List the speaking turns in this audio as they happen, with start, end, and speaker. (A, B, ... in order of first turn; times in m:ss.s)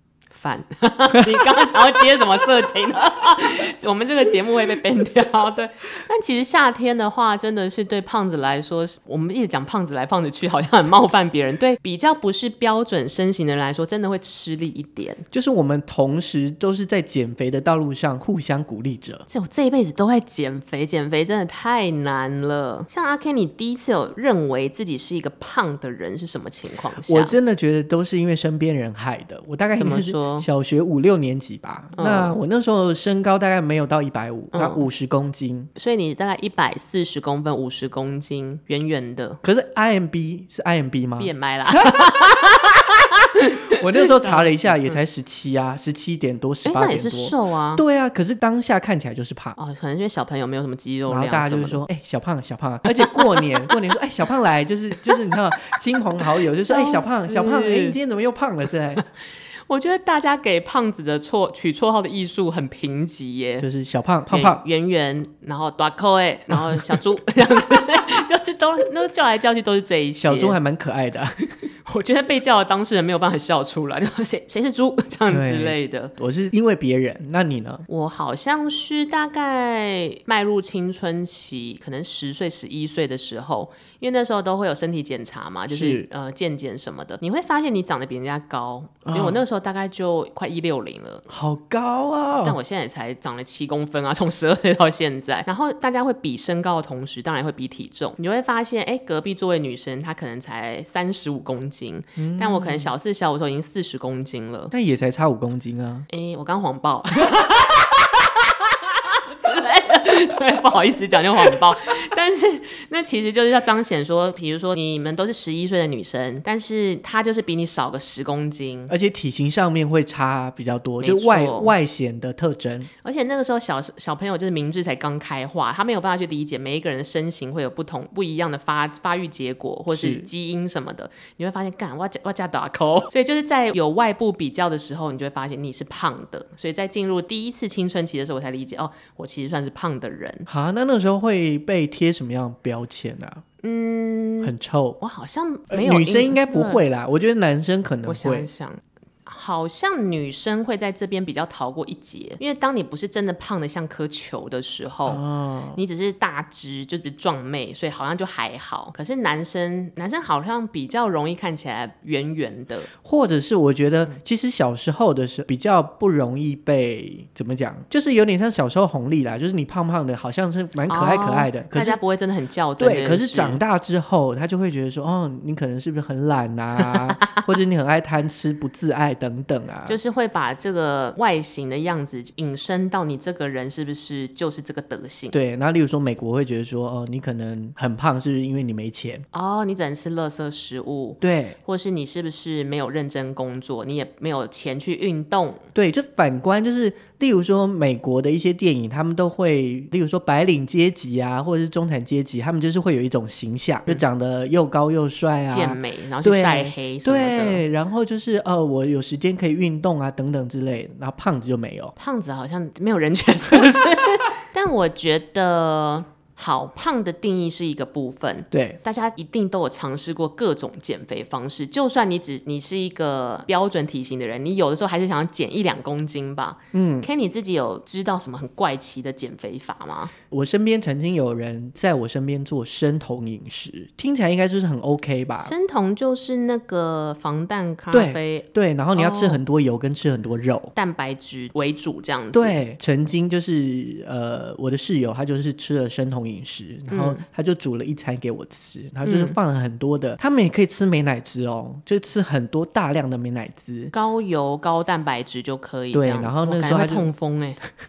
0:00.3-0:15.2 A
0:15.3-0:19.2 B
0:19.3-0:27.3 A
0:27.0-0:35.7 B
0:29.8-0:30.5 A
0:32.0-0:32.4 A
0:34.5-0:34.8 A
0:35.8-0:39.4 A
0:39.4-0:42.5 B
0:41.2-0:45.0 A
0:43.7-0:49.6 B
0:46.6-0:47.8 A
0:49.6-0:51.8 A
0:51.1-0:59.0 B
0:52.9-0:53.7 A
0:56.6-0:58.0 A
0:59.7-1:03.7 A
1:03.6-1:04.6 B
1:04.3-1:10.6 A
1:10.2-1:11.4 B
1:11.8-1:16.1 A
1:15.3-1:17.8 B
1:17.9-1:31.2 A
1:25.7-1:26.1 B
1:29.0-1:29.4 B
1:31.3-1:32.6 B
1:32.4-1:44.7 A
1:42.2-1:42.9 B
1:44.7-1:46.1 B
1:46.1-1:58.9 A
1:58.9-2:02.9 B
2:01.0-2:01.7 A
2:03.0-2:20.5 A
2:09.9-2:10.3 B
2:20.5-2:23.4 B
2:23.6-2:26.8 A
2:24.4-2:25.0 B
2:25.7-2:28.5 B
2:28.0-2:35.2 A
2:35.1-2:35.8 B
2:35.7-2:42.9 A
2:43.0-2:52.0 B
2:50.9-2:53.6 A
2:52.8-3:00.0 B
2:56.9-2:57.4 A
2:59.9-3:05.4 A
3:05.3-3:09.2 B
3:09.3-3:15.6 A
3:11.2-3:11.6 B
3:15.7-3:31.9 B
3:25.5-3:27.6 A
3:32.0-3:50.1 A
3:38.5-3:38.8 B
3:46.7-3:47.1 B
3:50.3-3:55.5 B
3:55.4-3:59.4 A
3:57.9-4:00.7 B
4:00.7-4:02.6 A
4:02.3-4:13.9 B
4:06.9-4:07.2 A
4:09.0-4:09.4 A
4:13.9-4:17.6 A
4:15.9-4:17.1 B